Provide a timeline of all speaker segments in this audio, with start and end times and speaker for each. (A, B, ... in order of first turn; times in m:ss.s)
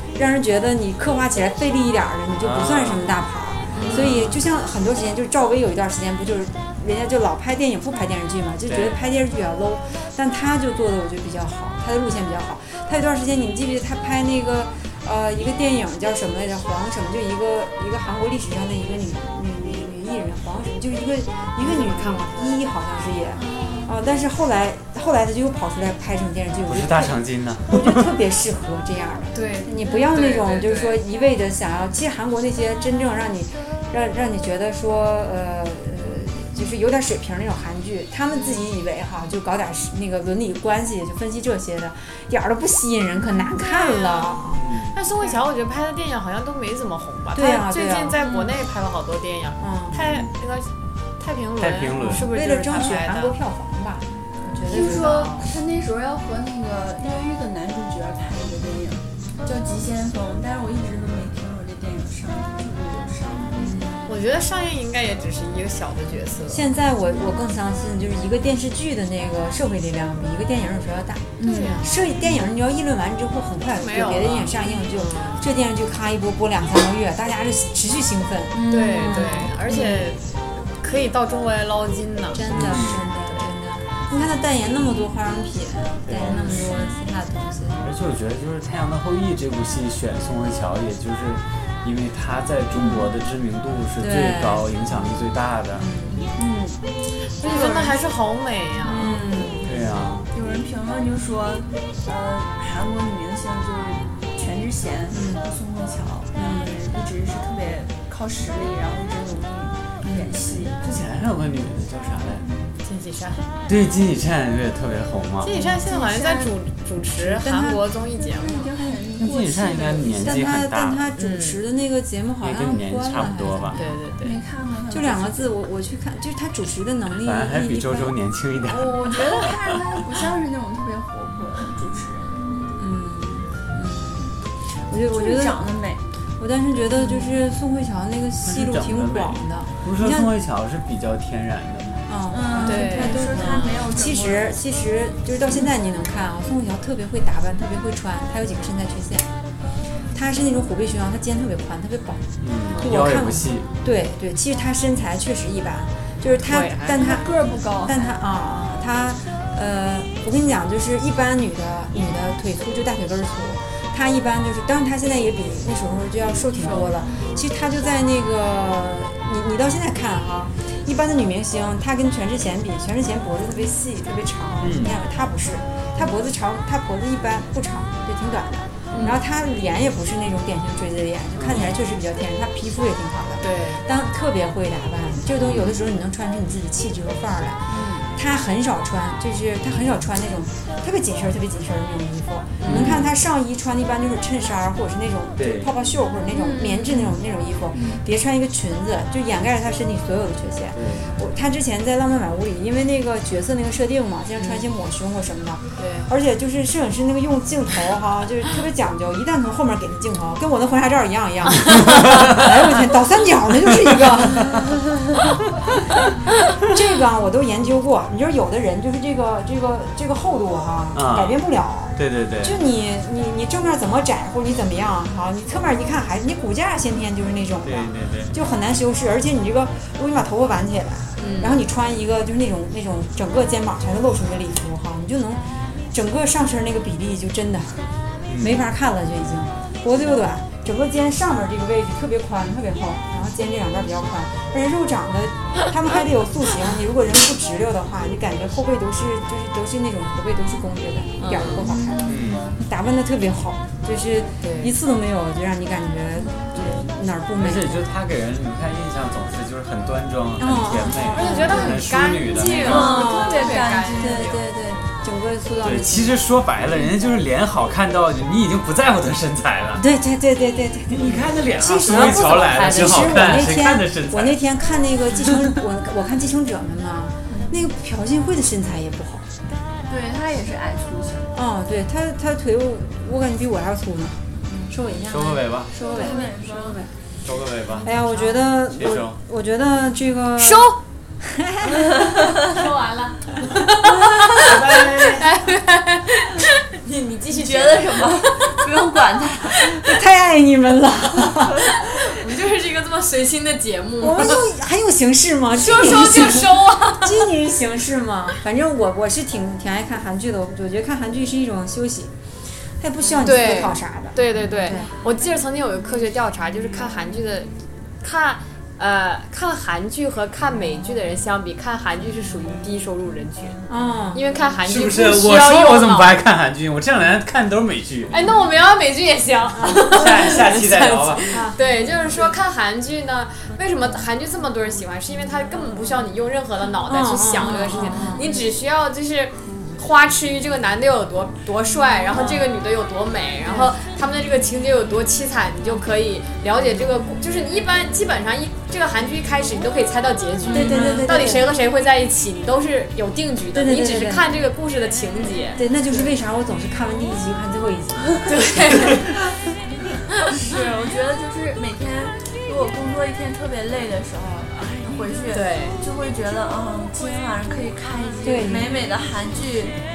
0:00.2-0:44.7 A
0:02.4-0:03.2 B
0:03.7-0:04.4 C
0:08.7-0:09.0 B
0:21.6-0:22.4 C
0:26.7-0:28.1 B
0:29.4-0:31.0 C
0:43.6-0:53.4 C
0:44.6-0:45.0 B
0:47.4-0:48.2 A
0:48.2-0:48.5 D
0:49.6-0:50.0 A
0:51.6-0:52.3 B
0:52.0-0:55.2 A
0:54.6-1:03.7 D
0:54.7-0:55.5 C
1:03.5-1:04.1 A
1:04.1-1:06.7 C
1:06.5-1:19.5 A
1:11.4-1:11.8 D
1:11.4-1:11.9 C
1:13.7-1:15.4 C
1:18.5-1:20.0 D
1:18.7-1:22.5 C
1:22.3-1:27.9 A
1:22.4-1:23.0 B
1:26.1-1:26.7 B
1:27.8-1:35.9 B
1:34.0-1:34.7 A
1:35.8-1:36.3 A
1:36.3-1:36.8 D
1:37.2-1:39.2 C
1:37.4-1:38.0 D
1:38.9-1:39.9 A
1:39.6-1:40.3 B
1:40.3-1:50.8 D
1:45.1-1:45.4 A
1:46.3-1:46.8 A
1:50.0-1:50.4 A
1:50.8-1:52.5 B
1:52.8-1:53.4 C
1:53.7-1:55.5 B
1:55.4-1:58.7 C
1:55.8-1:56.5 D
1:57.2-1:57.8 A
1:58.2-2:00.4 D
1:59.2-2:01.1 B
2:00.2-2:03.8 A
2:01.2-2:01.6 C
2:02.4-2:03.8 B
2:03.7-2:04.4 C
2:04.2-2:05.5 D
2:04.9-2:08.1 A
2:07.2-2:09.7 B
2:08.7-2:12.8 D
2:12.8-2:15.6 A
2:15.1-2:16.0 D
2:16.4-2:20.3 A
2:17.0-2:17.3 D
2:18.4-2:22.0 B
2:22.1-2:29.3 A
2:22.3-2:24.6 D
2:22.6-2:23.8 C
2:30.1-2:32.3 A
2:32.4-2:33.7 B
2:32.8-2:37.3 A
2:36.5-2:37.1 C
2:36.9-2:38.1 D
2:37.8-3:07.6 A
2:46.6-2:46.9 C
2:54.6-2:55.0 B
2:58.9-2:59.2 C
3:01.4-3:01.8 B
3:03.4-3:03.8 C
3:05.4-3:05.7 B
3:07.7-3:08.0 D
3:08.1-3:34.7 A
3:12.6-3:12.9 C
3:12.6-3:13.1 B
3:15.4-3:15.7 B
3:16.3-3:17.1 C
3:20.8-3:21.1 B
3:24.4-3:24.6 C
3:25.8-3:26.1 C
3:31.8-3:32.5 B
3:33.7-3:34.2 B
3:36.6-4:17.8 A
3:40.9-3:41.4 B
3:42.0-3:42.6 B
3:47.6-3:48.3 B
3:51.2-3:51.6 C
3:58.3-3:58.6 B
4:11.2-4:11.7 C
4:11.6-4:12.6 D
4:12.0-4:12.5 B
4:14.4-4:14.7 C
4:17.4-4:23.0 B
4:20.4-4:21.8 A
4:21.1-4:21.7 D
4:21.1-4:24.3 C
4:22.6-4:24.4 D
4:22.6-4:26.2 A
4:25.6-4:29.8 B
4:29.8-4:39.3 A
4:30.9-4:34.4 B
4:31.9-4:33.3 C
4:37.3-4:37.6 D
4:39.9-4:41.3 D
4:41.3-4:46.9 A
4:45.1-4:45.7 B
4:45.8-4:46.8 D
4:46.0-4:46.3 C
4:47.2-4:47.9 B
4:47.8-4:52.2 A
4:47.9-4:48.3 C
4:48.7-4:49.2 B
4:50.4-4:50.8 C
4:51.9-4:52.4 D
4:52.2-4:58.7 C
4:54.4-4:55.2 B
4:54.7-4:55.1 A
4:57.3-4:59.8 D
4:59.8-5:01.6 A
5:01.9-5:04.5 C
5:04.0-5:12.1 A
5:05.6-5:07.3 C
5:12.8-5:14.9 A
5:13.2-5:23.6 C
5:23.7-5:24.2 A
5:24.1-5:26.2 C
5:24.7-5:28.1 B
5:28.1-5:55.6 C
5:29.8-5:31.3 B
5:31.3-5:31.6 A
5:36.9-5:38.3 A
5:42.2-5:42.5 A
5:43.5-5:43.7 A
5:50.5-5:51.5 A
5:50.5-5:51.2 D
5:53.5-5:54.3 A
5:55.6-5:58.3 A
5:58.2-5:59.1 C
6:00.3-6:00.6 C
6:00.3-6:09.8 D
6:05.3-6:05.8 C
6:08.2-6:08.8 A